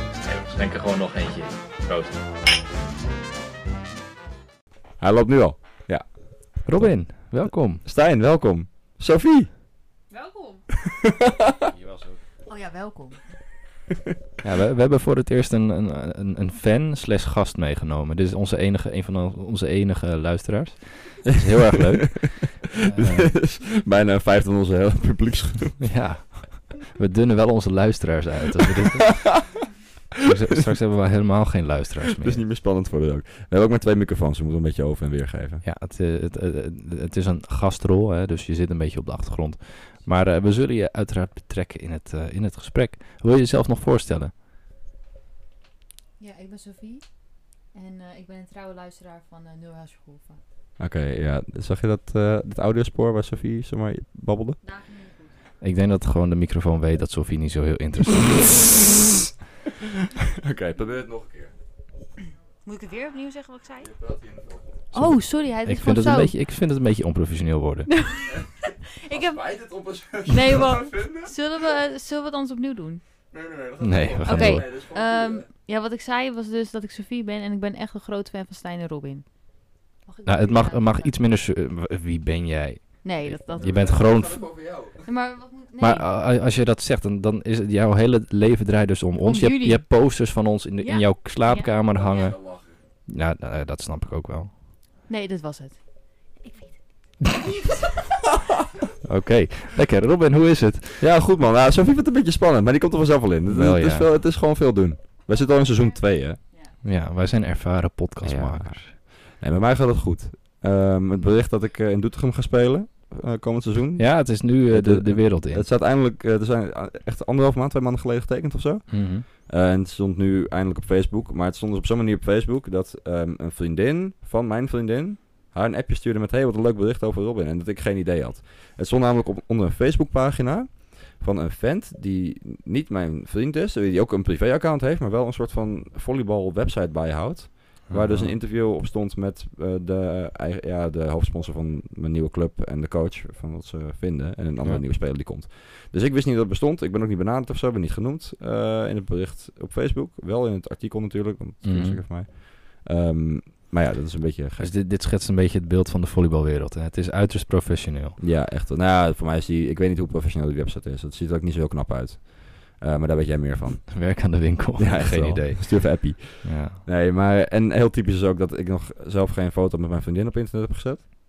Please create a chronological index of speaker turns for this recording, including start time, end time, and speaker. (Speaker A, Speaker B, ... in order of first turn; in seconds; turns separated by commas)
Speaker A: 0.2-2.1, Speaker B: 5.0-9.6, Speaker C: 6.6-7.8, Speaker D: 10.1-10.7, Speaker B: 10.7-11.7, Speaker A: 11.8-12.1, Speaker D: 12.5-13.2, Speaker C: 14.4-23.4, Speaker B: 21.9-25.9, Speaker C: 25.8-29.5, Speaker C: 30.2-32.4, Speaker B: 32.2-35.6, Speaker C: 35.6-44.3, Speaker D: 46.2-50.4, Speaker B: 50.8-54.6, Speaker D: 54.6-55.3, Speaker C: 55.6-58.9, Speaker B: 60.2-61.5, Speaker D: 62.6-63.9, Speaker B: 63.8-64.6, Speaker C: 64.9-67.9, Speaker D: 64.9-66.3, Speaker D: 67.9-69.4, Speaker B: 69.0-71.3, Speaker D: 70.3-73.0, Speaker B: 73.3-75.4, Speaker C: 73.8-74.7, Speaker D: 74.2-81.2, Speaker C: 80.2-84.5, Speaker D: 83.0-84.0, Speaker B: 83.6-85.0, Speaker D: 85.0-86.1, Speaker C: 85.8-94.5, Speaker D: 89.2-89.9, Speaker D: 90.8-91.7, Speaker B: 92.4-92.7, Speaker D: 95.1-98.0, Speaker C: 99.0-101.0, Speaker B: 101.0-106.4, Speaker C: 103.5-104.1, Speaker C: 106.8-108.9, Speaker B: 108.2-154.7, Speaker C: 114.0-115.7, Speaker C: 118.9-119.2, Speaker C: 137.9-138.3, Speaker C: 151.6-152.0, Speaker C: 154.6-158.2, Speaker B: 158.2-171.0, Speaker C: 163.9-166.8